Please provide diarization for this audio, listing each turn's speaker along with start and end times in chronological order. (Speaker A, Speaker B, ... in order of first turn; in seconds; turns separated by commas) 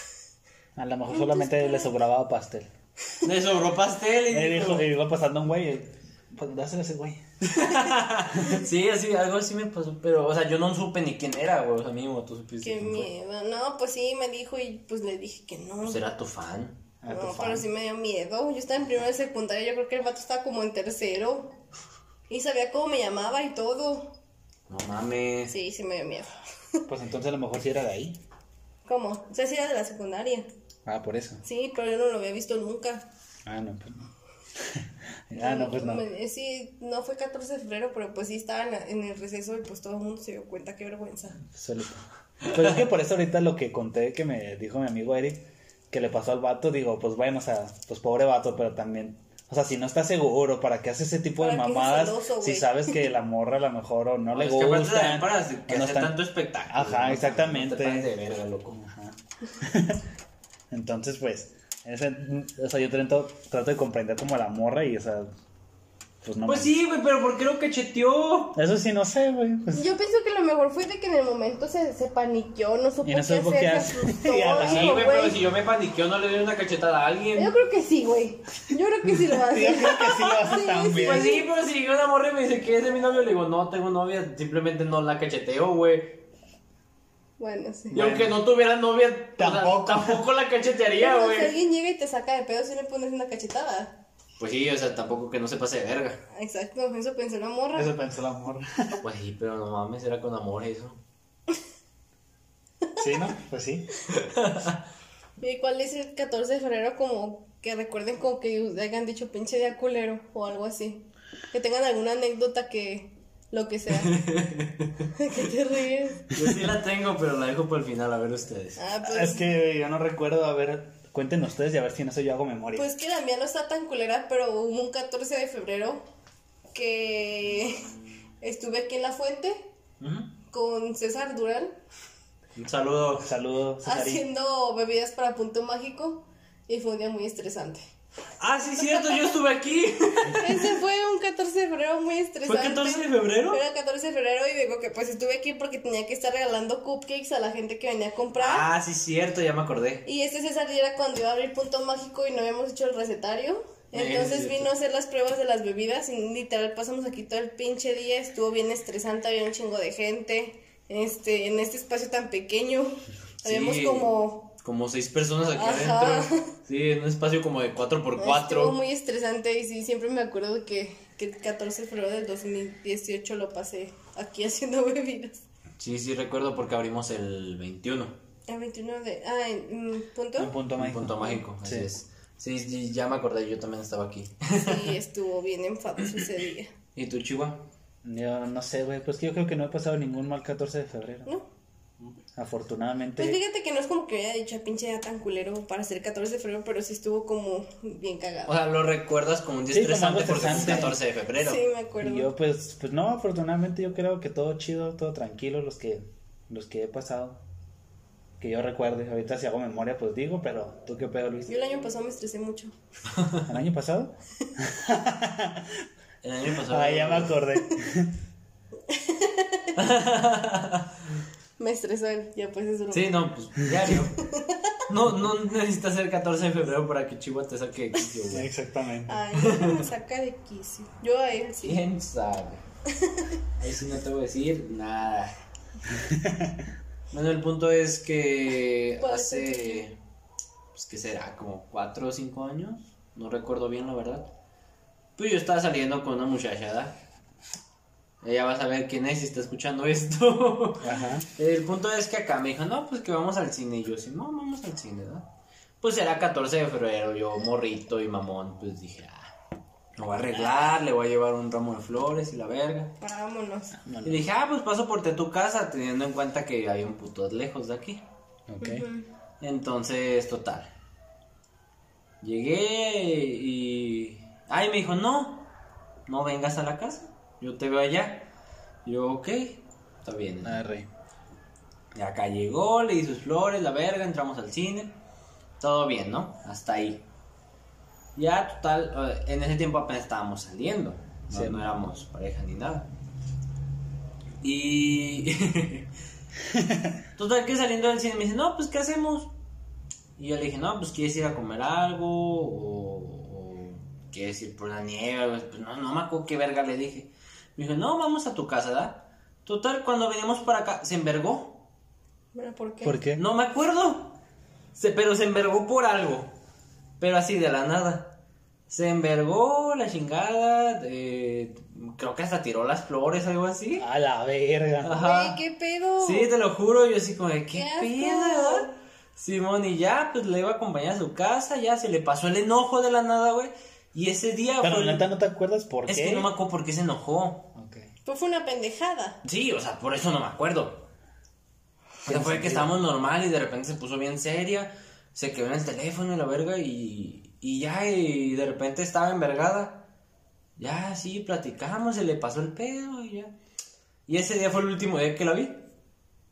Speaker A: 0.8-2.7, Speaker B: 1.1-1.9, Speaker C: 3.2-4.9, Speaker A: 4.3-7.2, Speaker C: 7.4-13.1, Speaker B: 12.6-16.0, Speaker C: 15.8-16.8, Speaker A: 17.0-17.7, Speaker B: 17.1-21.5, Speaker B: 22.3-24.1, Speaker C: 24.7-25.6, Speaker B: 25.5-26.9, Speaker A: 26.9-28.2, Speaker B: 28.9-30.5, Speaker A: 30.9-31.4, Speaker B: 31.4-33.1, Speaker A: 33.5-36.0, Speaker B: 35.4-41.4, Speaker A: 41.5-58.1, Speaker C: 42.4-42.8, Speaker B: 51.4-53.0, Speaker C: 54.3-58.8, Speaker A: 58.7-60.0, Speaker A: 60.7-65.3, Speaker A: 66.2-66.8, Speaker C: 66.5-68.6, Speaker A: 68.5-69.9, Speaker B: 69.7-75.4, Speaker A: 73.0-75.1, Speaker C: 74.6-77.5, Speaker B: 77.4-81.5, Speaker A: 79.1-81.3, Speaker C: 81.0-86.2, Speaker B: 87.4-88.0, Speaker A: 87.9-88.4, Speaker C: 87.9-91.5, Speaker A: 89.4-90.2, Speaker B: 91.0-94.0, Speaker C: 94.4-96.2, Speaker B: 96.3-98.0, Speaker A: 97.8-99.0, Speaker C: 99.0-101.0, Speaker A: 103.0-103.9, Speaker C: 104.1-104.8, Speaker B: 105.4-114.2, Speaker C: 113.9-115.1, Speaker B: 115.2-116.3, Speaker C: 116.3-118.8, Speaker B: 118.8-119.5, Speaker A: 119.0-122.9, Speaker B: 122.8-126.0, Speaker B: 126.7-127.8, Speaker B: 128.4-129.7, Speaker C: 130.0-130.3, Speaker B: 130.5-131.8, Speaker C: 132.6-133.3, Speaker A: 133.2-134.2, Speaker B: 133.8-137.8, Speaker C: 138.4-140.6, Speaker B: 138.9-139.2, Speaker B: 140.3-148.7, Speaker C: 142.4-143.6, Speaker C: 148.3-150.1, Speaker B: 150.1-164.5, Speaker C: 153.9-154.7, Speaker C: 163.4-168.8, Speaker B: 165.6-166.5, Speaker B: 168.2-175.4, Speaker C: 175.8-178.2, Speaker B: 178.5-180.6, Speaker A: 180.4-181.9, Speaker C: 180.8-184.9, Speaker B: 184.6-186.7, Speaker C: 187.0-187.7, Speaker A: 188.0-191.3, Speaker A: 192.3-193.4, Speaker B: 193.2-198.6, Speaker C: 198.5-201.6, Speaker A: 199.7-201.0, Speaker B: 201.4-202.3, Speaker A: 202.0-207.4, Speaker A: 208.4-211.5, Speaker B: 211.5-212.7, Speaker C: 213.1-213.5, Speaker A: 213.5-215.7, Speaker C: 216.2-217.4, Speaker A: 216.7-218.1, Speaker B: 218.9-219.7, Speaker C: 219.8-220.9, Speaker B: 221.6-223.3, Speaker C: 222.9-224.2, Speaker B: 224.2-224.7, Speaker C: 224.9-228.5, Speaker A: 228.3-229.2, Speaker B: 229.1-231.8, Speaker C: 229.3-229.8, Speaker C: 231.6-232.6, Speaker B: 233.0-233.3, Speaker C: 233.6-235.3, Speaker A: 236.0-236.6, Speaker C: 237.1-240.0, Speaker B: 239.0-239.9, Speaker C: 240.7-244.3, Speaker C: 245.2-247.0, Speaker C: 248.2-255.3, Speaker A: 250.8-251.3, Speaker C: 255.8-259.3, Speaker C: 260.0-262.9, Speaker B: 263.0-263.8, Speaker A: 263.8-264.2, Speaker C: 264.0-268.0, Speaker A: 268.5-268.9, Speaker B: 268.6-269.1, Speaker C: 269.4-270.7, Speaker C: 272.2-275.5, Speaker C: 276.1-278.3, Speaker C: 278.9-280.6, Speaker A: 280.4-280.9, Speaker C: 281.9-285.0, Speaker C: 285.6-287.1, Speaker C: 288.2-292.9, Speaker A: 291.3-291.7, Speaker C: 294.4-295.9, Speaker A: 296.5-296.9, Speaker C: 297.2-299.3, Speaker C: 300.2-311.6, Speaker B: 312.3-313.0, Speaker A: 312.8-313.2, Speaker C: 313.2-314.2, Speaker C: 314.8-316.3, Speaker C: 317.0-323.9, Speaker A: 323.8-325.0, Speaker C: 324.8-325.4, Speaker B: 324.9-326.3, Speaker C: 326.0-335.1, Speaker B: 327.5-328.7, Speaker A: 334.6-336.3, Speaker C: 335.9-337.5, Speaker A: 337.6-337.9, Speaker B: 338.1-339.2, Speaker C: 339.2-340.9, Speaker A: 342.1-342.7, Speaker C: 342.1-349.9, Speaker C: 350.6-353.4, Speaker C: 354.1-355.7